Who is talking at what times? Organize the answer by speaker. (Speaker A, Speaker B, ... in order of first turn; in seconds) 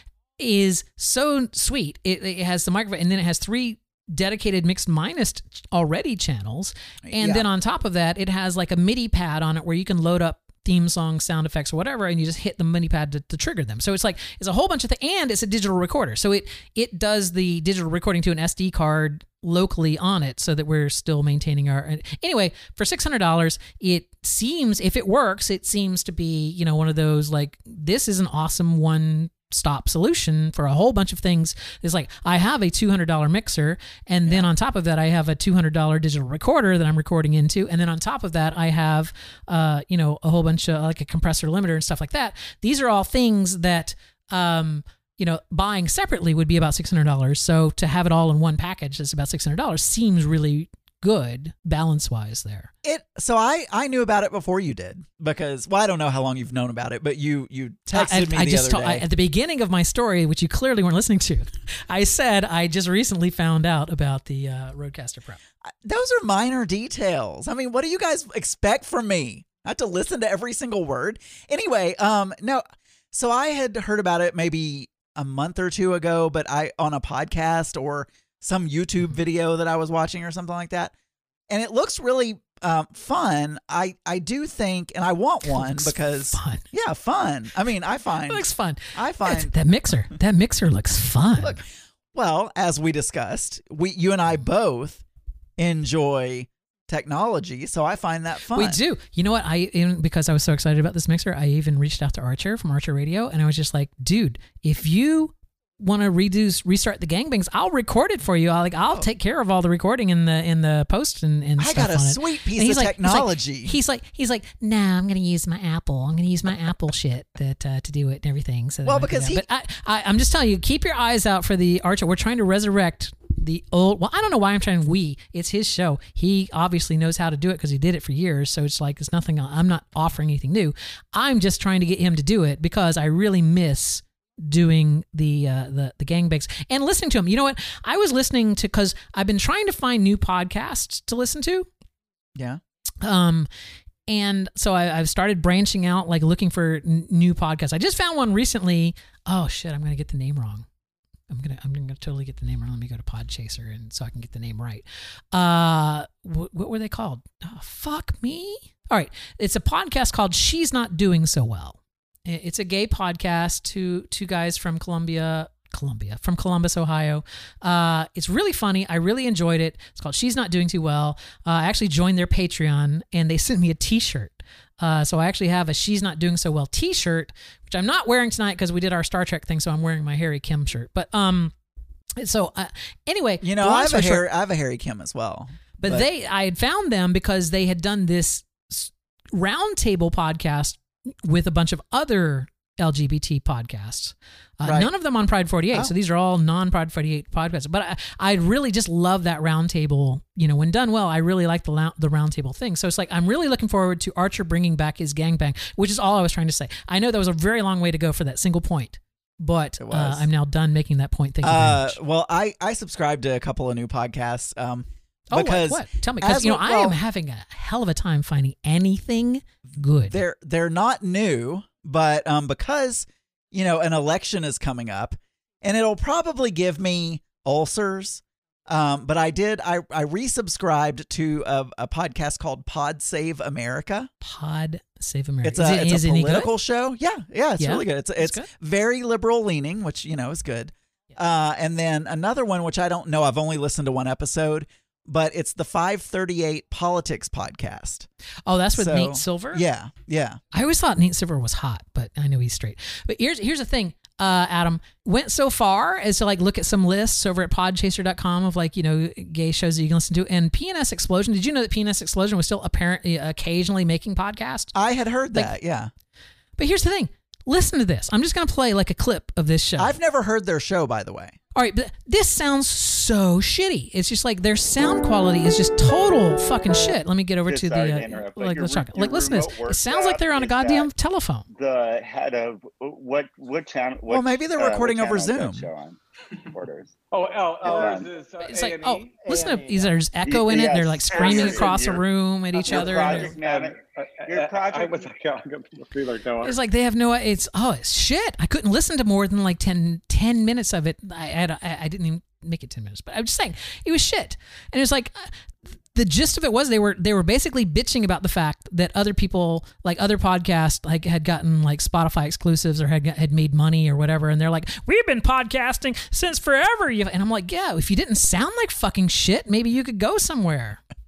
Speaker A: 0.4-52.7, 57.9-65.4, 85.5-86.6, 88.3-91.6, 98.5-141.7, 143.0-143.5, 144.1-150.7, 151.3-181.5, 182.2-184.2, 185.8-212.0, 215.3-220.2, 234.2-236.5, 237.6-238.5, 248.4-249.6, 250.5-264.7, 266.6-270.0, 271.5-281.5, 288.4-293.4, 296.4-305.3, 305.9-320.8
Speaker B: 7.0-7.5, 52.8-59.0, 65.7-80.9, 81.5-89.5, 91.4-95.0, 95.6-98.8, 111.6-113.8, 118.8-119.5, 142.3-142.6, 183.4-186.1, 194.6-194.9, 209.8-210.2, 211.4-217.0, 220.1-234.1, 235.4-248.1, 248.7-250.4, 264.7-265.9, 269.8-271.4, 284.1-285.6
Speaker C: 277.5-280.9, 281.5-286.0, 286.5-287.0, 287.6-288.1, 290.2-292.0, 292.7-296.5
Speaker D: 287.1-290.0, 291.1-291.8, 292.5-296.5